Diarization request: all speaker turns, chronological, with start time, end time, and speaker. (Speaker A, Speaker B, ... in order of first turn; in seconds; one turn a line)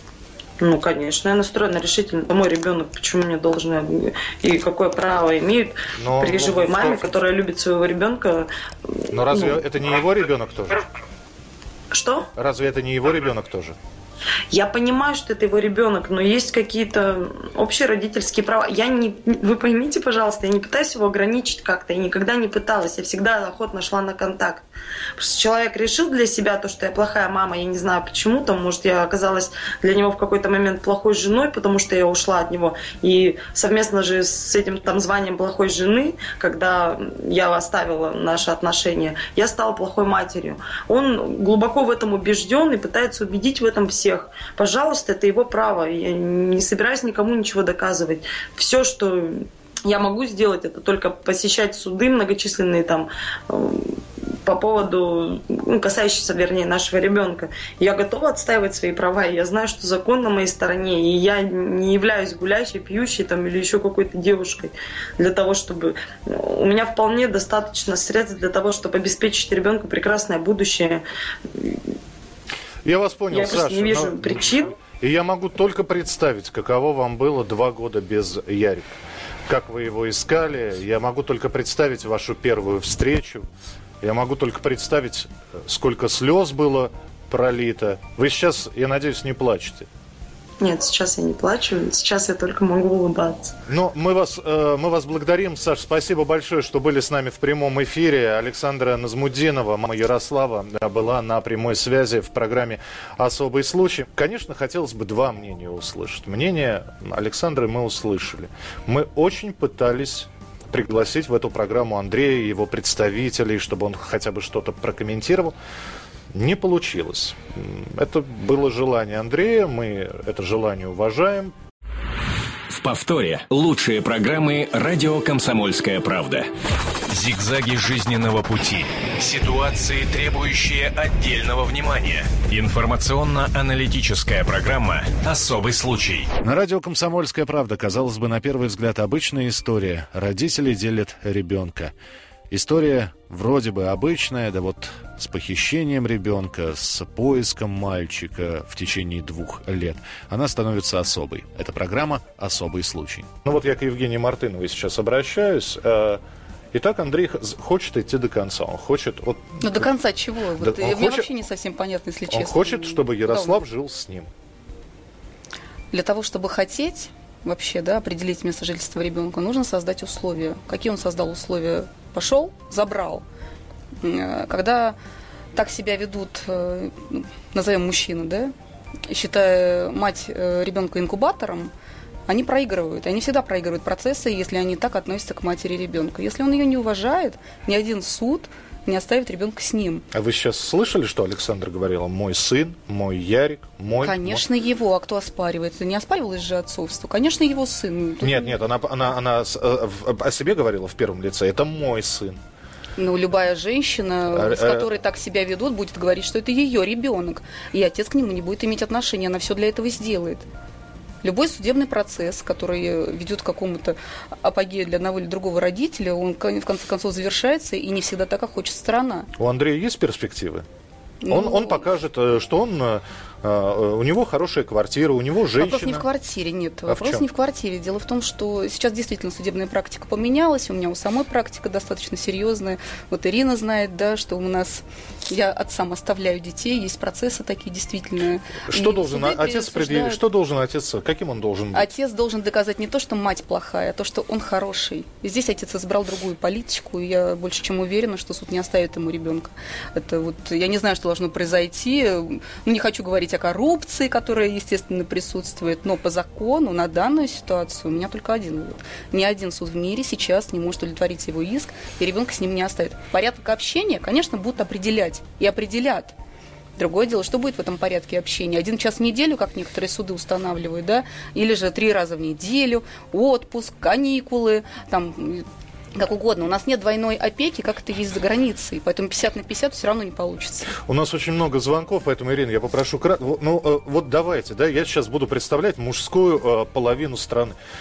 Speaker A: 0.6-9.6
Speaker B: 6.0-7.1
Speaker B: 9.1-10.8
Speaker A: 11.9-12.3
Speaker B: 12.3-13.8
Speaker A: 14.5-24.6
Speaker A: 25.2-71.8
Speaker B: 72.8-78.9
Speaker A: 73.3-74.8
Speaker B: 79.5-83.5
Speaker B: 84.0-89.9
Speaker A: 90.6-93.5
Speaker B: 93.7-115.5
Speaker B: 116.3-121.5
Speaker C: 122.7-126.5
Speaker D: 127.1-136.3
Speaker B: 136.4-141.9
Speaker B: 142.5-156.2
Speaker B: 156.7-159.9
Speaker E: 159.6-163.6
Speaker B: 160.6-161.3
Speaker B: 162.3-164.3
Speaker E: 165.9-173.2
Speaker E: 174.0-175.0
Speaker E: 175.5-178.5
Speaker E: 179.1-181.7
Speaker E: 182.3-190.1
Speaker B: 190.1-194.4
Speaker E: 194.0-198.6
Speaker B: 198.2-202.4
Speaker E: 203.0-210.4
Speaker B: 204.3-204.9
Speaker E: 211.2-219.3
Speaker B: 219.4-220.7
Speaker E: 221.2-221.8
Speaker B: 221.3-226.1
Speaker E: 225.5-240.2
Speaker B: 226.9-227.2
Speaker B: 238.7-241.9
Speaker E: 241.7-266.1
Speaker E: 266.8-275.4
Speaker E: 276.0-280.8
Speaker B: 280.8-287.6